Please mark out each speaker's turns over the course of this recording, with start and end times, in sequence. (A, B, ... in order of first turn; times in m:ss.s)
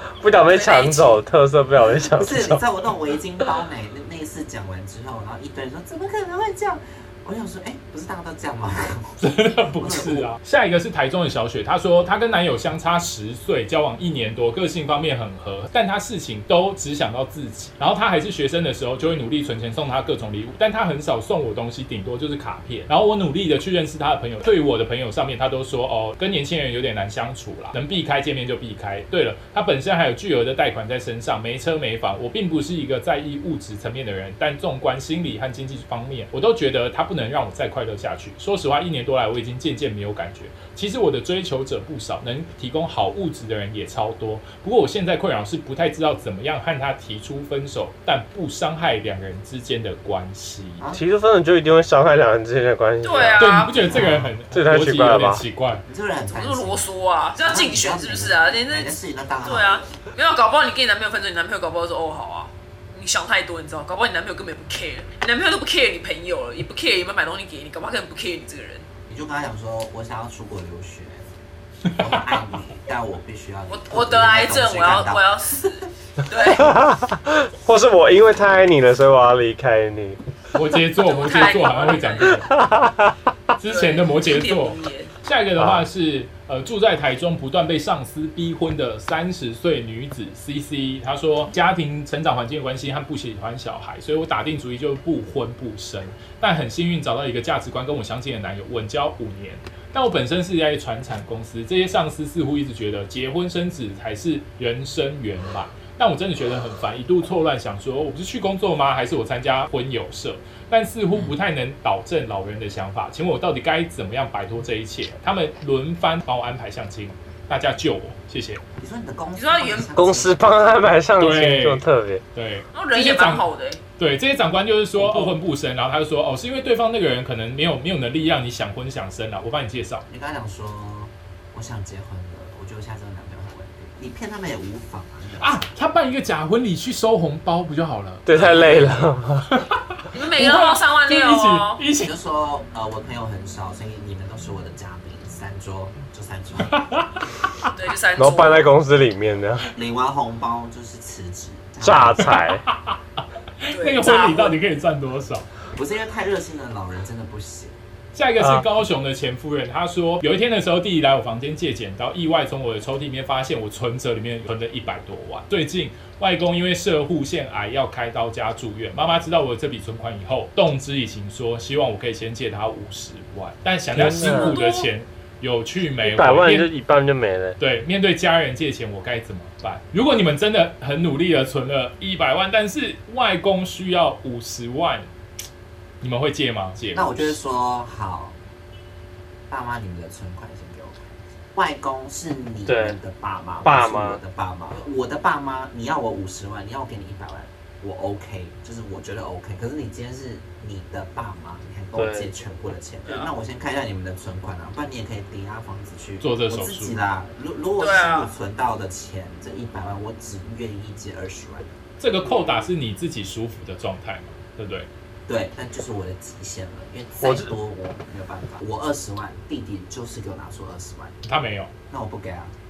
0:00.2-0:02.6 A
0:00.5-0:01.2 B
0:02.1-0:09.2 C
0:09.2-0:50.8 D
0:09.8-0:10.3 C
0:50.9-0:53.5 A
0:53.0-0:53.8 B
0:53.4-0:55.8 D
0:53.7-0:54.4 C
0:54.5-0:55.4 A
0:55.8-0:56.9 C
0:56.3-1:08.9 B
0:57.4-0:59.9 C
1:09.1-1:11.3 C
1:11.9-1:15.8 C
1:13.7-1:16.8 B
1:16.6-1:20.2 A
1:20.5-1:22.6 D
1:21.0-1:22.4 B
1:22.6-1:22.8 A
1:23.6-1:58.6 D
1:23.6-1:25.1 B
1:25.6-1:25.8 A
1:51.1-1:51.4 C
1:58.8-2:01.0 C
1:59.4-1:59.9 B
2:00.0-2:02.2 A
2:01.2-2:03.4 D
2:02.7-2:03.8 B
2:04.0-2:10.0 D
2:05.0-2:05.4 A
2:10.1-2:15.7 C
2:15.4-2:19.0 D
2:18.2-2:19.5 A
2:18.4-2:19.1 C
2:19.5-2:19.8 D
2:20.1-2:21.8 B
2:20.4-2:22.1 D
2:22.0-2:26.8 C
2:26.7-2:27.2 D
2:27.8-2:28.8 B
2:28.2-2:29.7 A
2:29.7-2:32.4 C
2:31.8-2:32.6 A
2:32.2-2:33.0 D
2:33.6-2:35.5 D
2:33.7-2:34.6 B
2:35.8-2:37.8 C
2:38.1-2:56.7 D
2:38.4-2:38.6 A
2:54.0-2:54.6 A
2:54.3-2:54.9 B
2:56.0-2:57.6 A
2:57.6-3:05.1 D
3:06.0-3:07.4 D
3:06.9-3:08.4 C
3:09.5-3:31.8 C
3:12.7-3:13.0 A
3:13.6-3:14.2 A
3:22.0-3:22.3 A
3:23.1-3:23.3 B
3:26.2-3:27.0 D
3:27.8-3:28.3 B
3:32.0-3:34.9 D
3:35.3-3:41.2 C
3:37.2-3:37.5 A
3:41.2-3:41.7 D
3:41.9-3:42.5 C